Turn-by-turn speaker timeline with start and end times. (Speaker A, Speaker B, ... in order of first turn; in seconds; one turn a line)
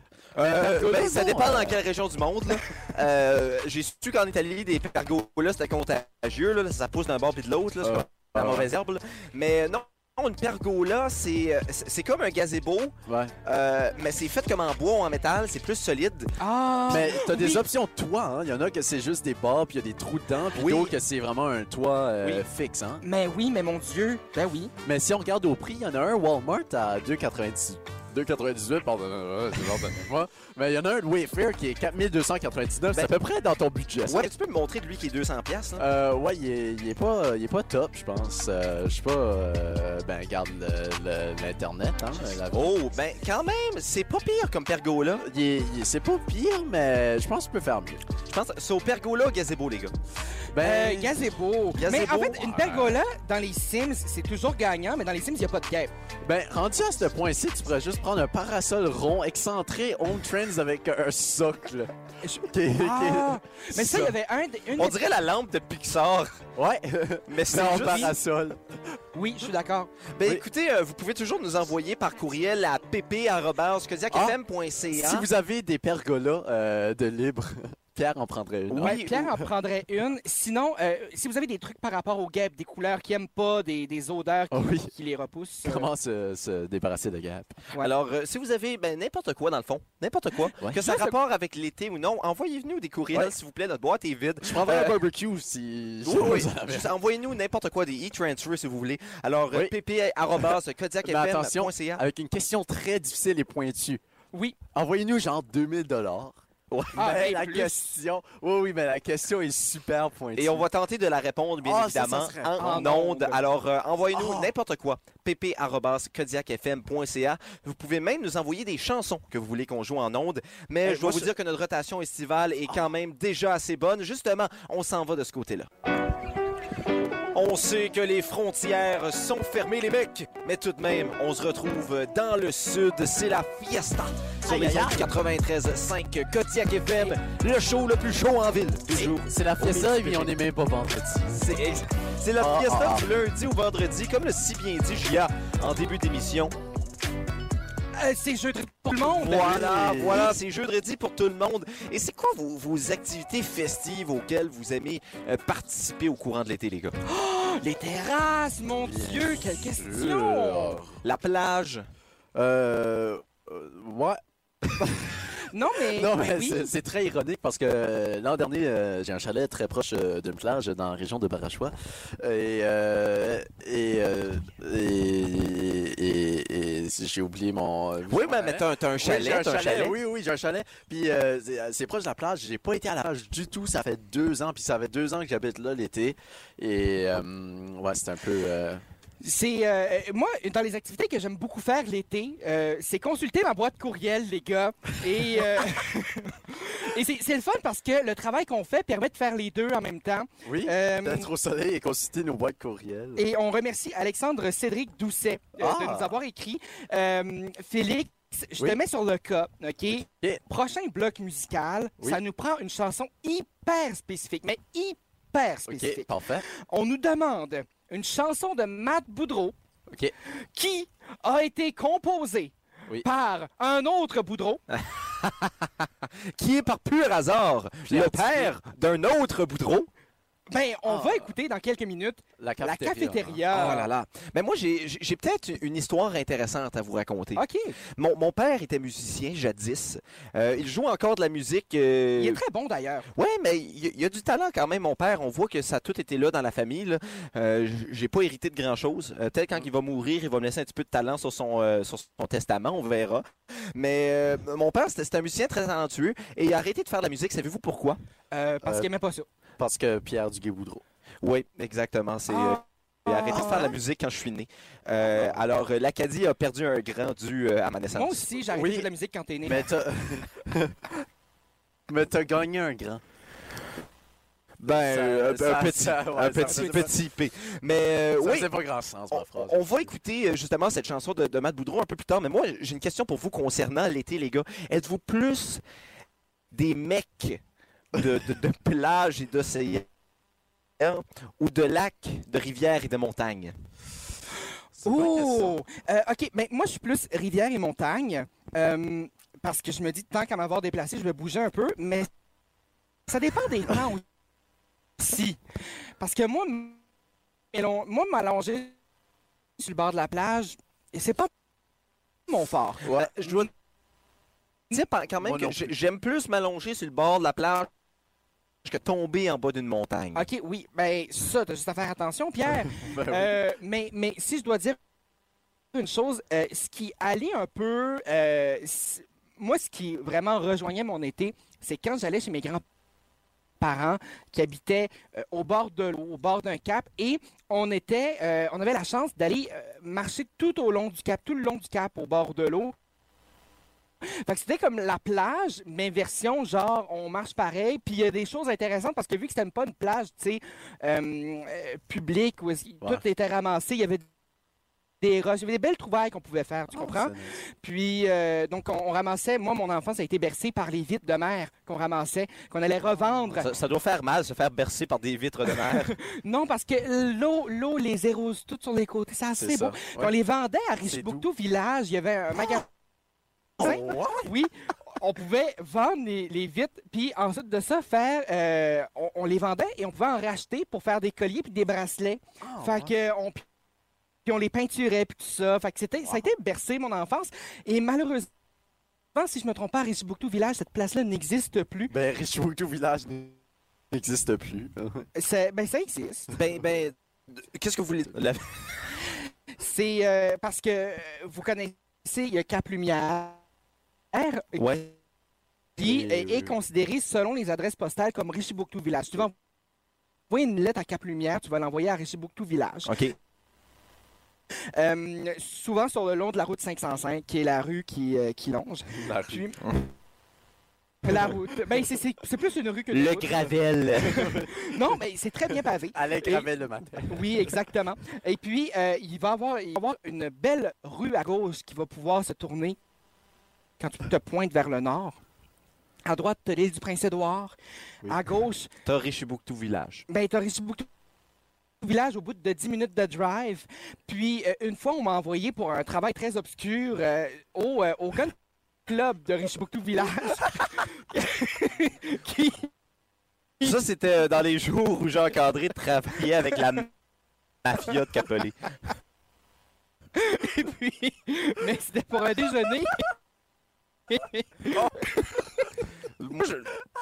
Speaker A: 0.4-12.9
Speaker B: 0.5-1.2
Speaker C: 0.6-1.8
Speaker C: 7.8-8.7
Speaker C: 13.1-13.3
Speaker A: 13.4-16.3
Speaker B: 16.4-17.6
Speaker C: 16.9-23.0
Speaker A: 20.5-20.9
Speaker B: 23.0-24.7
Speaker C: 24.8-34.3
Speaker A: 34.1-35.9
Speaker C: 35.8-42.8
Speaker A: 42.5-45.3
Speaker C: 45.2-48.0
Speaker A: 48.3-49.9
Speaker C: 50.5-51.2
Speaker B: 50.6-55.9
Speaker A: 51.8-52.8
Speaker C: 52.5-53.0
Speaker C: 56.2-61.9
Speaker B: 62.2-65.0
Speaker C: 62.5-64.2
Speaker A: 64.8-66.5
Speaker C: 66.6-69.0
Speaker A: 67.3-68.2
Speaker B: 67.7-68.1
Speaker B: 69.1-69.9
Speaker A: 70.1-75.3
Speaker C: 74.1-74.4
Speaker C: 74.9-79.5
Speaker A: 78.7-79.3
Speaker B: 78.8-85.9
Speaker C: 84.5-84.9
Speaker C: 85.6-87.6
Speaker A: 87.8-95.0
Speaker C: 90.6-91.0
Speaker C: 94.4-96.9
Speaker A: 96.0-102.0
Speaker C: 100.4-104.0
Speaker C: 104.7-110.7
Speaker B: 107.0-107.9
Speaker A: 110.4-125.7
Speaker C: 111.6-112.7
Speaker B: 112.6-113.4
Speaker C: 114.1-114.5
Speaker C: 120.8-121.3
Speaker A: 127.3-140.3
Speaker C: 134.4-135.1
Speaker C: 138.9-141.4
Speaker A: 141.3-146.5
Speaker C: 142.4-143.1
Speaker B: 147.9-149.6
Speaker A: 149.0-157.0
Speaker C: 149.2-150.4
Speaker B: 157.1-160.8
Speaker C: 158.8-161.0
Speaker A: 161.0-161.8
Speaker C: 162.3-165.3
Speaker B: 165.4-166.7
Speaker C: 165.9-188.8
Speaker A: 178.1-180.0
Speaker B: 189.2-201.3
Speaker C: 200.4-203.2
Speaker B: 203.2-219.6
Speaker C: 205.6-206.2
Speaker C: 210.0-210.4
Speaker C: 215.7-216.5
Speaker B: 220.5-224.6
Speaker A: 224.7-225.7
Speaker A: 226.4-229.9
Speaker C: 227.9-228.5
Speaker B: 230.5-233.9
Speaker C: 230.9-231.3
Speaker C: 232.4-233.4
Speaker A: 233.5-237.4
Speaker B: 237.4-237.8
Speaker A: 238.0-242.4
Speaker B: 242.2-243.1
Speaker A: 243.2-258.0
Speaker B: 258.3-259.3
Speaker C: 258.6-258.9
Speaker C: 259.6-260.8
Speaker A: 261.2-268.2
Speaker B: 262.3-263.7
Speaker C: 263.3-263.7
Speaker C: 265.0-265.4
Speaker B: 267.9-269.7
Speaker C: 268.5-268.9
Speaker C: 269.4-270.9
Speaker C: 271.9-273.0
Speaker A: 274.6-278.5
Speaker C: 274.8-276.9
Speaker C: 278.2-279.9
Speaker A: 279.1-285.6
Speaker A: 286.5-287.4
Speaker A: 287.9-289.9
Speaker A: 290.8-293.5
Speaker C: 294.8-295.5
Speaker B: 294.8-302.1
Speaker B: 303.1-304.0
Speaker B: 305.0-305.4
Speaker B: 306.0-306.8
Speaker B: 307.5-308.7
Speaker B: 309.6-311.3
Speaker B: 312.3-313.5
Speaker A: 312.9-313.5
Speaker A: 314.7-317.7
Speaker C: 315.2-315.7
Speaker A: 318.6-320.3
Speaker B: 320.1-324.8
Speaker C: 322.7-323.4
Speaker B: 325.7-332.6
Speaker B: 333.6-342.8
Speaker B: 344.0-354.1
Speaker B: 355.0-363.5
Speaker C: 356.7-357.4
Speaker A: 363.4-365.9
Speaker B: 365.7-372.7
Speaker C: 369.4-370.1
Speaker C: 370.9-371.2
Speaker C: 373.6-374.3
Speaker B: 373.6-383.4
Speaker C: 382.4-382.9
Speaker B: 384.2-388.3
Speaker B: 389.1-391.9
Speaker C: 391.9-393.4
Speaker C: 393.9-395.1
Speaker B: 395.1-396.3
Speaker A: 396.3-398.5
Speaker B: 399.6-403.4
Speaker B: 404.1-404.6
Speaker A: 404.6-404.9
Speaker B: 405.8-409.4
Speaker C: 405.8-406.5
Speaker B: 410.3-412.9
Speaker A: 412.9-413.1
Speaker B: 414.8-419.6
Speaker C: 418.9-419.4
Speaker B: 421.0-426.5
Speaker A: 422.9-424.3
Speaker C: 424.0-424.5
Speaker C: 425.9-427.6
Speaker B: 427.1-432.8
Speaker B: 433.8-435.2
Speaker B: 436.1-438.7
Speaker A: 438.9-440.1
Speaker B: 440.1-440.9
Speaker B: 441.8-448.4
Speaker B: 448.9-452.7
Speaker A: 453.6-456.9
Speaker A: 457.6-458.6
Speaker B: 460.1-463.1
Speaker B: 464.1-465.2
Speaker A: 464.7-465.1
Speaker A: 466.2-466.8